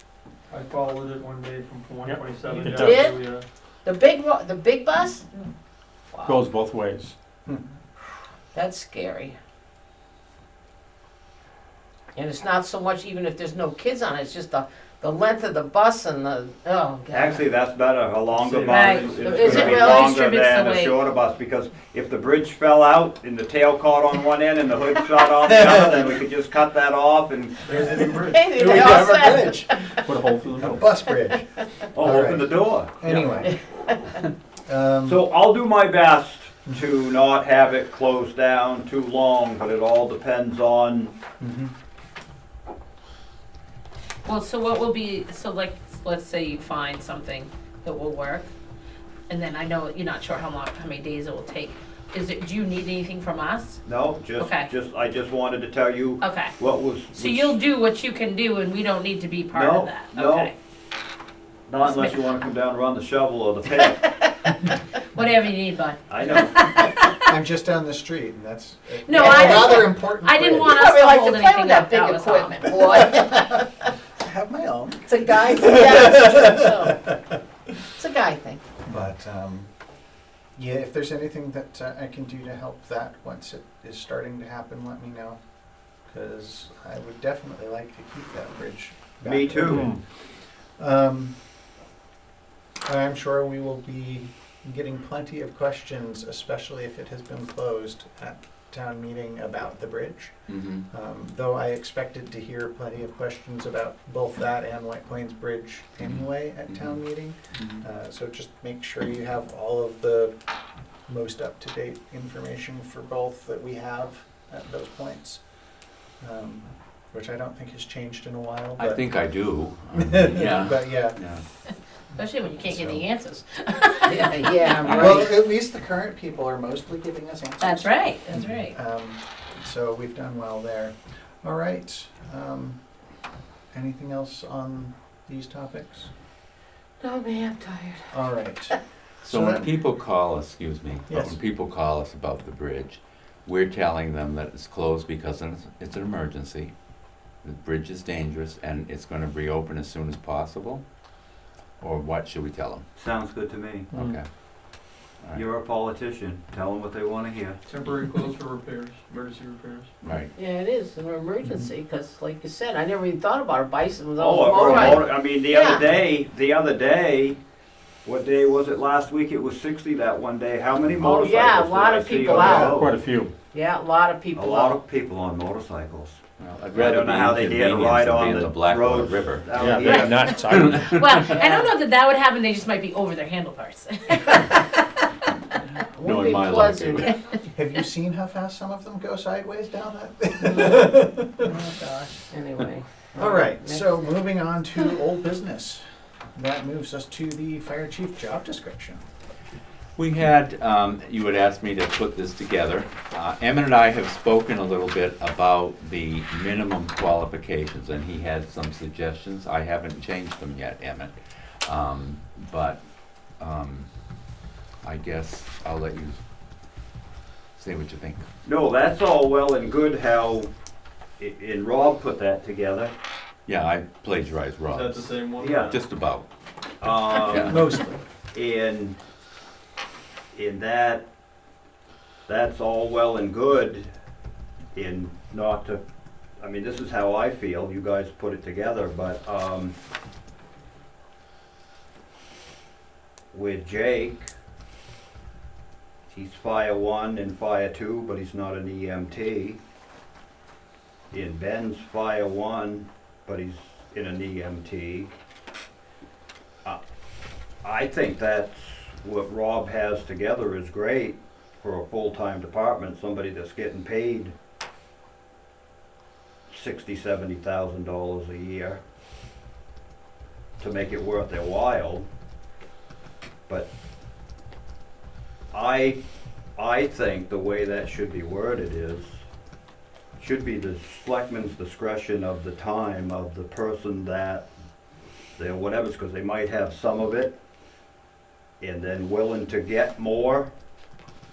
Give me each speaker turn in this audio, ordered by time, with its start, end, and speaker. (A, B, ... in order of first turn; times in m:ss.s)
0:00.5-0:03.4 A
0:02.0-0:03.0 B
0:02.7-0:03.2 C
0:03.8-0:05.3 C
0:06.1-0:06.4 C
0:06.2-0:07.2 B
0:07.5-0:07.8 D
0:08.5-0:09.4 C
0:12.2-0:17.5 C
0:17.1-0:28.2 E
0:18.4-0:19.8 A
0:18.7-0:21.0 F
0:19.1-0:20.2 C
0:25.4-0:26.1 D
0:27.7-0:28.4 A
0:27.8-0:29.7 D
0:28.2-0:30.1 C
0:30.0-0:30.8 B
0:30.5-0:30.8 A
0:30.6-0:33.6 D
0:31.9-0:33.4 E
0:34.7-0:35.2 D
0:35.0-0:41.2 E
0:41.4-0:41.7 D
0:44.2-0:48.5 F
0:49.3-0:53.8 F
0:53.8-0:57.6 E
0:54.4-0:54.7 F
0:56.2-0:56.6 F
0:57.1-1:00.5 F
0:59.5-1:00.5 E
1:01.7-1:04.2 E
1:01.8-1:02.2 F
1:05.2-1:07.3 F
1:06.1-1:06.5 E
1:07.0-1:10.9 D
1:09.0-1:12.8 F
1:09.1-1:10.0 C
1:10.6-1:13.9 C
1:12.9-1:13.6 D
1:14.2-1:17.1 D
1:15.1-1:17.1 C
1:18.0-1:18.6 C
1:18.9-1:19.7 D
1:20.6-1:25.4 D
1:26.1-1:30.0 D
1:29.2-1:30.0 E
1:29.7-1:30.0 B
1:30.8-1:31.4 D
1:32.8-1:40.3 D
1:40.5-1:40.9 G
1:40.9-1:50.4 D
1:46.0-1:47.0 G
1:47.5-1:47.8 G
1:51.1-1:55.4 D
1:56.2-1:59.0 D
1:58.8-2:01.4 G
1:59.9-2:01.2 D
2:02.1-2:04.9 F
2:02.6-2:03.0 D
2:04.0-2:05.4 C
2:04.8-2:12.8 D
2:07.6-2:08.8 F
2:13.7-2:16.1 D
2:17.0-2:18.1 C
2:18.1-2:19.7 D
2:19.2-2:26.7 G
2:21.1-2:21.4 D
2:27.4-2:30.8 G
2:31.8-2:32.8 G
2:33.0-2:33.9 E
2:33.9-2:34.2 G
2:35.3-2:37.6 E
2:37.7-2:39.9 A
2:40.0-2:40.3 G
2:40.4-2:45.9 C
2:44.2-2:47.4 E
2:48.0-2:53.0 E
2:51.0-2:52.8 C
2:52.4-2:52.7 D
2:52.4-2:53.4 B
2:53.5-2:54.8 C
2:54.3-2:56.2 E
2:56.4-3:01.4 G
2:56.7-3:00.5 E
2:59.6-3:01.0 B
2:59.8-3:04.7 F
3:01.2-3:01.7 C
3:06.0-3:07.2 C
3:06.0-3:07.1 G
3:07.6-3:11.5 D
3:10.4-3:13.9 C
3:13.2-3:19.0 D
3:20.0-3:32.8 G
3:33.4-3:33.9 G
3:34.8-3:36.2 G
3:37.6-3:38.2 G
3:38.4-3:40.5 E
3:41.2-3:42.9 E
3:43.5-3:46.3 G
3:44.7-3:45.8 A
3:45.4-3:45.8 E
3:46.8-3:47.8 E
3:47.2-3:47.7 G
3:47.3-3:48.0 D
3:48.3-3:49.0 E
3:50.3-3:51.1 E
3:52.3-3:53.9 E
3:54.7-3:55.8 E
3:56.4-3:59.8 E
4:03.3-4:04.3 E
4:06.1-4:09.6 E
4:11.1-4:15.1 E
4:17.6-4:24.3 E
4:26.5-4:28.8 E
4:30.6-4:32.1 E
4:35.5-4:36.0 E
4:36.6-4:39.2 E
4:40.2-4:44.5 E
4:45.4-4:47.4 E
4:48.6-4:50.5 E